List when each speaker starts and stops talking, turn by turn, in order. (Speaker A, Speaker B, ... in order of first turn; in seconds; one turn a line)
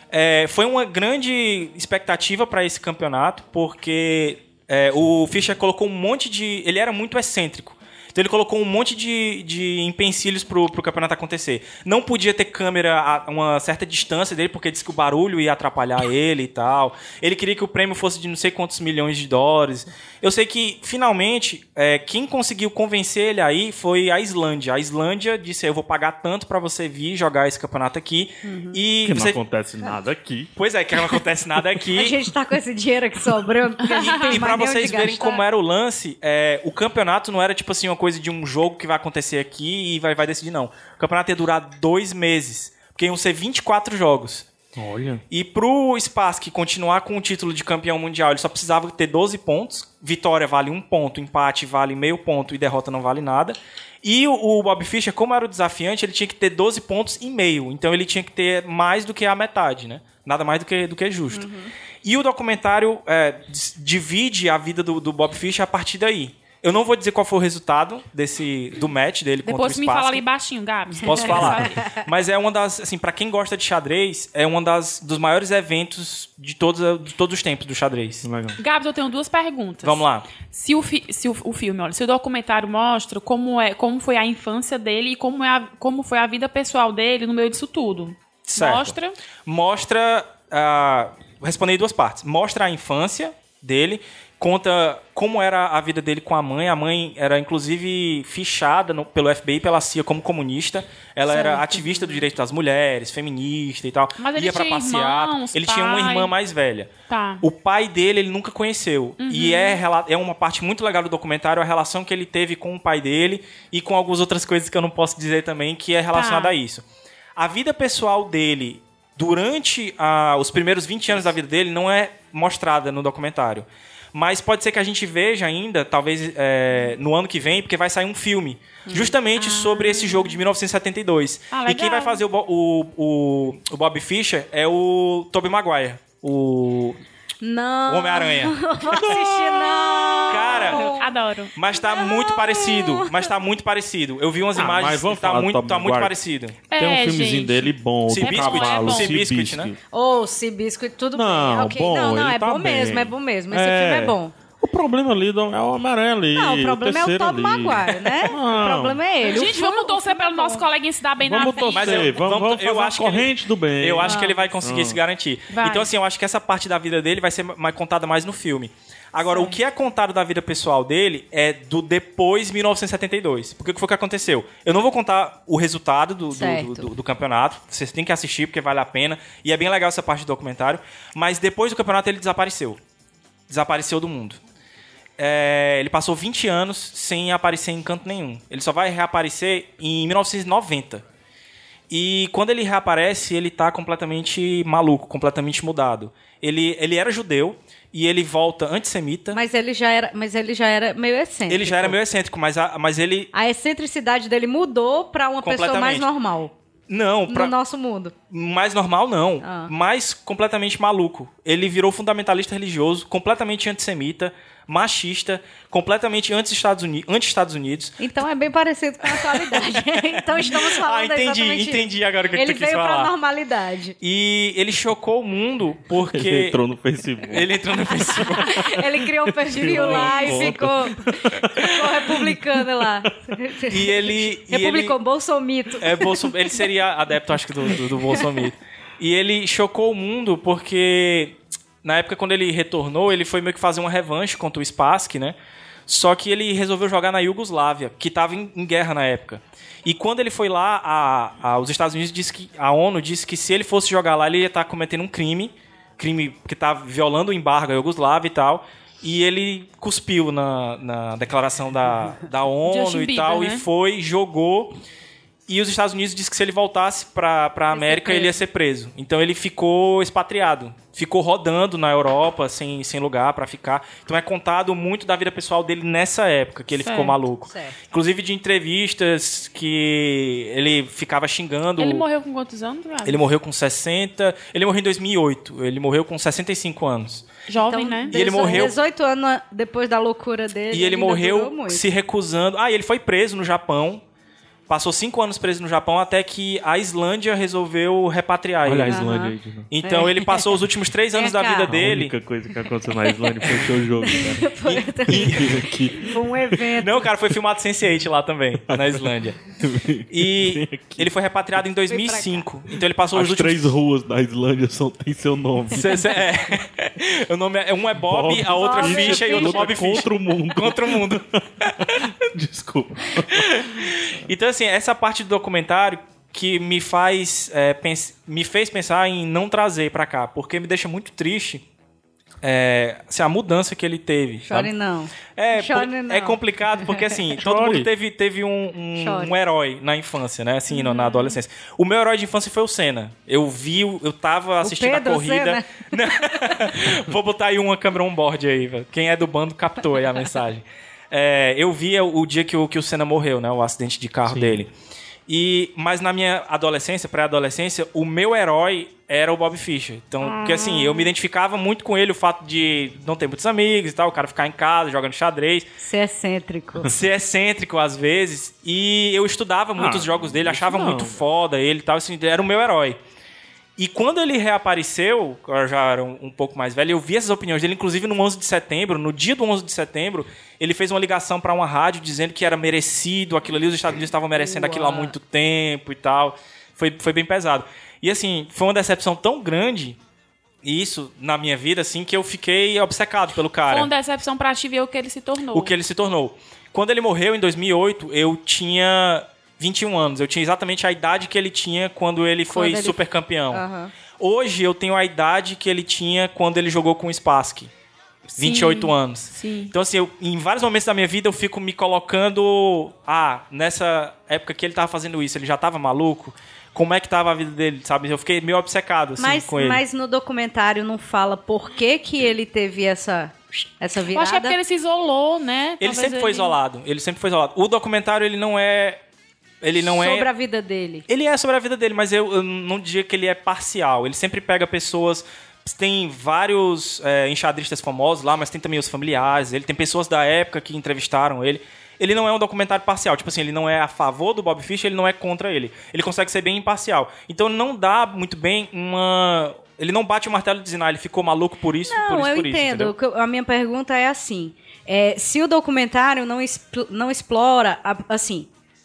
Speaker A: 0.1-29.4
Speaker B: 28.4-28.8
Speaker C: 29.0-30.5
Speaker A: 30.6-32.2
Speaker B: 31.9-35.4
Speaker A: 33.9-44.5
Speaker D: 34.0-34.4
Speaker C: 44.8-45.2
Speaker A: 45.3-61.5
Speaker B: 61.3-61.7
Speaker A: 62.0-70.2
Speaker D: 69.5-71.9
Speaker A: 71.0-78.3
Speaker C: 78.2-78.6
Speaker D: 78.6-89.2
Speaker A: 79.8-80.3
Speaker A: 88.5-116.8
Speaker D: 101.3-102.2
Speaker D: 104.2-106.3
Speaker D: 107.1-107.4
Speaker D: 109.2-109.8
Speaker D: 116.1-116.5
Speaker A: 117.3-137.0
Speaker B: 128.8-129.1
Speaker D: 129.3-130.4
Speaker D: 131.5-132.2
Speaker B: 137.4-141.1
Speaker A: 137.9-138.6
Speaker C: 138.9-140.5
Speaker A: 140.3-140.9
Speaker D: 140.8-141.5
Speaker A: 141.5-146.6
Speaker B: 141.8-143.3
Speaker C: 144.5-146.1
Speaker D: 146.7-149.2
Speaker C: 146.8-149.8
Speaker A: 148.1-149.7
Speaker B: 149.9-154.3
Speaker C: 151.1-159.0
Speaker B: 156.3-160.7
Speaker D: 159.2-162.1
Speaker C: 161.2-165.0
Speaker A: 161.7-182.8
Speaker B: 164.0-164.4
Speaker D: 165.5-165.9
Speaker B: 176.3-176.9
Speaker A: 183.5-184.4
Speaker A: 185.2-191.0
Speaker A: 191.9-199.4
Speaker B: 199.3-202.0
Speaker A: 201.5-203.3
Speaker B: 203.3-206.5
Speaker A: 205.4-206.1
Speaker A: 206.9-207.5
Speaker B: 207.3-208.1
Speaker A: 208.3-218.0
Speaker B: 209.4-209.7
Speaker B: 218.0-223.9
Speaker A: 219.0-223.1
Speaker A: 224.0-226.6
Speaker C: 226.1-233.1
Speaker A: 227.2-228.7
Speaker B: 228.1-236.3
Speaker A: 229.6-230.4
Speaker A: 233.7-234.9
Speaker A: 235.8-245.3
Speaker A: 245.9-264.8
Speaker D: 262.6-263.6
Speaker A: 265.5-282.1
Speaker D: 267.8-268.3
Speaker D: 276.7-277.1
Speaker B: 277.4-277.8
Speaker D: 281.8-283.2
Speaker A: 283.0-287.3
Speaker D: 287.5-288.7
Speaker B: 287.6-291.8
Speaker A: 288.1-288.7
Speaker A: 290.7-294.0
Speaker A: 294.7-299.1
Speaker C: 298.6-299.7
Speaker B: 298.9-300.5
Speaker A: 299.7-302.1
Speaker B: 301.1-301.7
Speaker C: 301.7-304.5
Speaker B: 304.1-307.1
Speaker A: 304.6-305.6
Speaker C: 305.1-306.8
Speaker A: 306.8-309.4
Speaker C: 308.6-311.1
Speaker A: 310.1-313.7
Speaker B: 311.9-312.4
Speaker C: 313.1-316.1
Speaker A: 315.7-322.1
Speaker C: 318.0-323.8
Speaker B: 318.5-320.0
Speaker A: 323.3-331.6
Speaker A: 332.4-334.7
Speaker B: 334.4-337.0
Speaker A: 335.4-354.7
Speaker C: 337.4-337.9
Speaker B: 338.9-339.4
Speaker B: 344.6-346.5
Speaker C: 354.2-354.6
Speaker A: 355.3-365.7
Speaker B: 365.8-366.9
Speaker A: 366.8-373.0
Speaker C: 369.8-371.2
Speaker A: 373.8-390.0
Speaker B: 384.3-385.1
Speaker A: 390.6-393.9
Speaker D: 393.7-395.7
Speaker A: 395.5-403.6
Speaker B: 402.5-403.9
Speaker A: 404.2-407.7
Speaker A: 408.4-419.8
Speaker D: 408.4-409.7
Speaker B: 419.2-424.6
Speaker D: 424.1-426.6
Speaker A: 425.8-429.0
Speaker A: 429.6-430.3
Speaker B: 429.8-431.0
Speaker A: 431.1-452.9
Speaker B: 451.9-458.5